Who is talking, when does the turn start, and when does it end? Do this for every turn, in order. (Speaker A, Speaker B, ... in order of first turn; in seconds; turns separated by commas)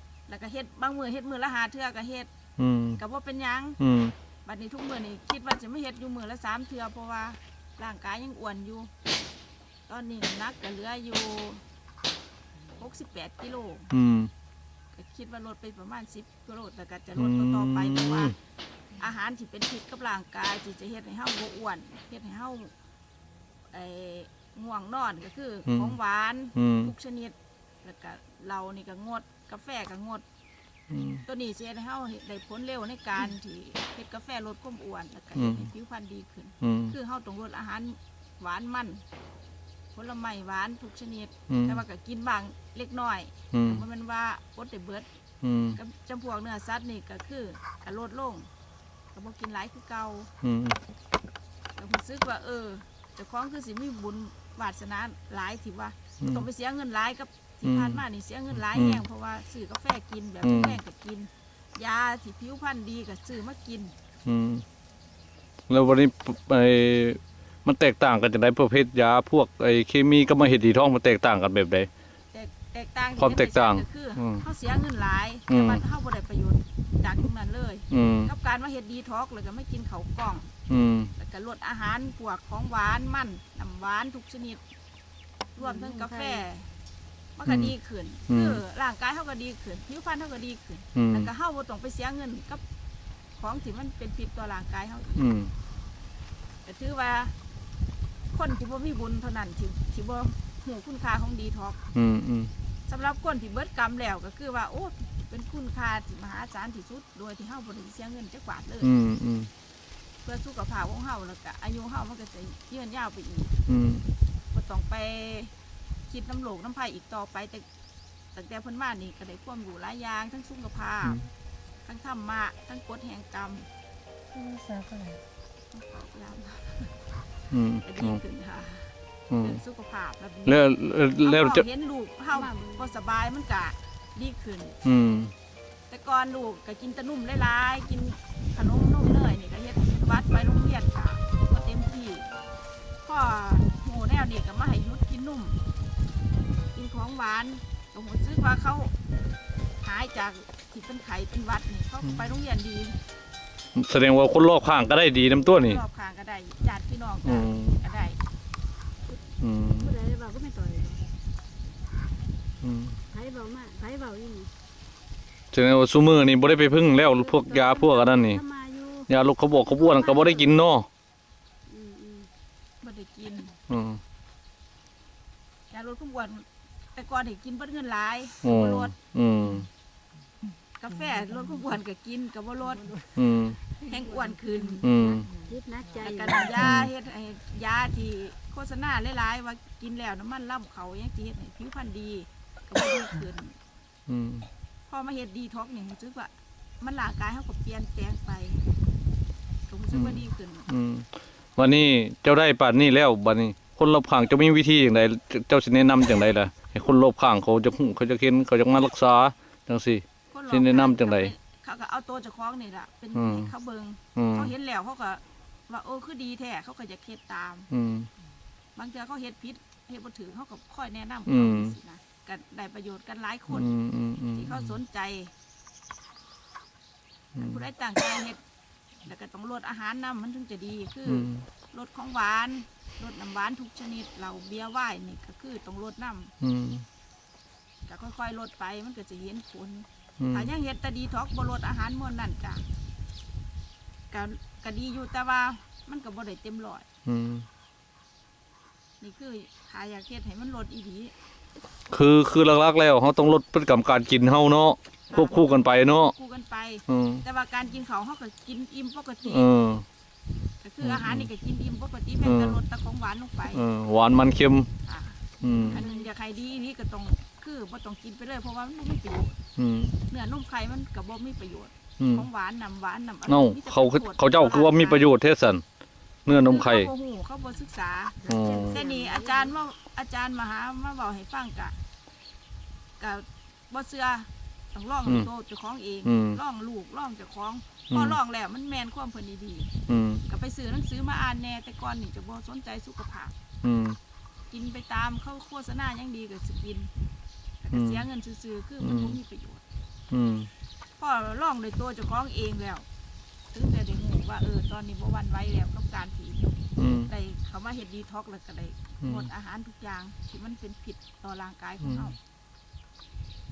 Speaker A: 0.3-2.3, Speaker B: 2.6-3.0, Speaker A: 3.0-3.8, Speaker B: 3.8-4.1, Speaker A: 4.4-8.9, Speaker A: 9.9-11.6, Speaker A: 12.7-13.9, Speaker B: 13.9-14.3, Speaker A: 14.9-18.4, Speaker B: 17.1-18.4, Speaker A: 19.0-22.7, Speaker A: 23.7-30.2, Speaker B: 25.6-26.0, Speaker B: 26.5-26.9, Speaker B: 30.9-31.2, Speaker A: 31.2-39.0, Speaker B: 35.3-35.7, Speaker B: 36.6-36.9, Speaker A: 39.9-45.1, Speaker B: 41.5-41.8, Speaker B: 43.5-43.8, Speaker B: 45.4-45.8, Speaker A: 45.7-48.5, Speaker A: 49.1-50.3, Speaker B: 50.4-50.8, Speaker A: 51.8-64.0, Speaker B: 56.2-56.5, Speaker B: 57.6-58.0, Speaker B: 58.5-59.0, Speaker B: 60.4-60.8, Speaker B: 64.2-64.6, Speaker B: 65.7-71.9, Speaker A: 72.3-80.5, Speaker B: 73.2-74.4, Speaker B: 75.5-75.8, Speaker B: 77.9-78.3, Speaker B: 80.7-81.1, Speaker A: 81.1-84.6, Speaker C: 85.5-86.4, Speaker A: 85.6-86.7, Speaker A: 87.3-92.6, Speaker B: 87.5-87.7, Speaker B: 88.3-88.6, Speaker B: 90.9-91.3, Speaker A: 93.4-95.3, Speaker B: 95.2-95.5, Speaker A: 96.6-97.3, Speaker A: 98.3-101.8, Speaker B: 101.9-102.5, Speaker A: 102.9-108.9, Speaker B: 108.8-109.5, Speaker A: 110.2-113.5, Speaker B: 113.7-114.1, Speaker A: 114.5-115.5, Speaker A: 116.1-117.7, Speaker A: 118.3-121.2, Speaker B: 121.0-121.3, Speaker A: 121.8-123.7, Speaker C: 124.3-125.2, Speaker A: 125.7-126.9, Speaker B: 127.5-128.2, Speaker A: 127.8-134.8, Speaker B: 129.3-129.6, Speaker B: 130.4-131.6, Speaker C: 132.3-132.9, Speaker B: 134.8-135.3, Speaker A: 135.9-142.3, Speaker A: 143.0-145.6, Speaker A: 146.7-148.9, Speaker A: 149.8-153.0, Speaker B: 153.7-155.8, Speaker A: 155.2-158.2, Speaker B: 157.2-157.8, Speaker B: 159.4-159.9, Speaker C: 159.8-161.1, Speaker B: 162.6-163.0, Speaker C: 163.1-164.5, Speaker B: 165.5-168.4, Speaker C: 166.8-169.1, Speaker B: 169.1-170.9, Speaker C: 169.7-170.6, Speaker C: 171.7-172.3, Speaker A: 172.8-173.6, Speaker B: 173.7-174.0, Speaker A: 175.7-178.9, Speaker B: 178.4-179.7, Speaker A: 180.8-182.9, Speaker B: 183.1-183.6, Speaker A: 183.8-184.8, Speaker C: 183.9-186.7, Speaker B: 184.8-185.3, Speaker A: 186.0-193.6, Speaker B: 186.6-186.9, Speaker B: 194.1-194.5, Speaker A: 194.9-198.6, Speaker A: 199.7-200.7, Speaker B: 199.9-211.3, Speaker A: 210.3-217.7, Speaker B: 213.1-213.5, Speaker B: 214.2-214.5, Speaker B: 217.7-218.1, Speaker A: 218.8-223.7, Speaker B: 221.3-221.7, Speaker B: 223.5-224.8, Speaker A: 224.3-225.3, Speaker B: 227.3-227.6, Speaker A: 227.4-228.4, Speaker A: 229.0-236.3, Speaker B: 231.0-231.4, Speaker B: 236.4-236.8, Speaker A: 237.8-242.6, Speaker B: 240.2-240.5, Speaker A: 244.1-246.8, Speaker B: 247.0-247.5, Speaker A: 249.0-251.1, Speaker B: 251.9-256.1, Speaker A: 255.1-259.5, Speaker B: 256.9-257.2, Speaker B: 259.2-259.8, Speaker A: 260.6-263.7, Speaker B: 260.8-261.3, Speaker B: 262.2-262.6, Speaker B: 263.5-264.7, Speaker A: 264.8-269.4, Speaker B: 265.4-265.9, Speaker C: 265.6-266.1, Speaker B: 269.6-269.9, Speaker A: 270.1-275.1, Speaker B: 272.0-272.2, Speaker B: 273.3-275.6, Speaker B: 276.2-276.9, Speaker A: 276.2-281.8, Speaker C: 278.2-279.5, Speaker B: 278.2-278.8, Speaker A: 283.0-289.7, Speaker B: 286.0-286.4, Speaker B: 287.9-288.2, Speaker B: 289.9-290.2, Speaker A: 290.3-293.3, Speaker B: 293.6-294.0, Speaker A: 294.5-296.9, Speaker A: 297.6-299.6, Speaker B: 297.7-298.0, Speaker B: 298.8-299.2, Speaker B: 300.1-300.5, Speaker A: 301.0-302.9, Speaker A: 303.5-306.4, Speaker B: 306.8-307.1, Speaker A: 307.1-312.1, Speaker B: 309.0-309.3, Speaker B: 311.8-312.1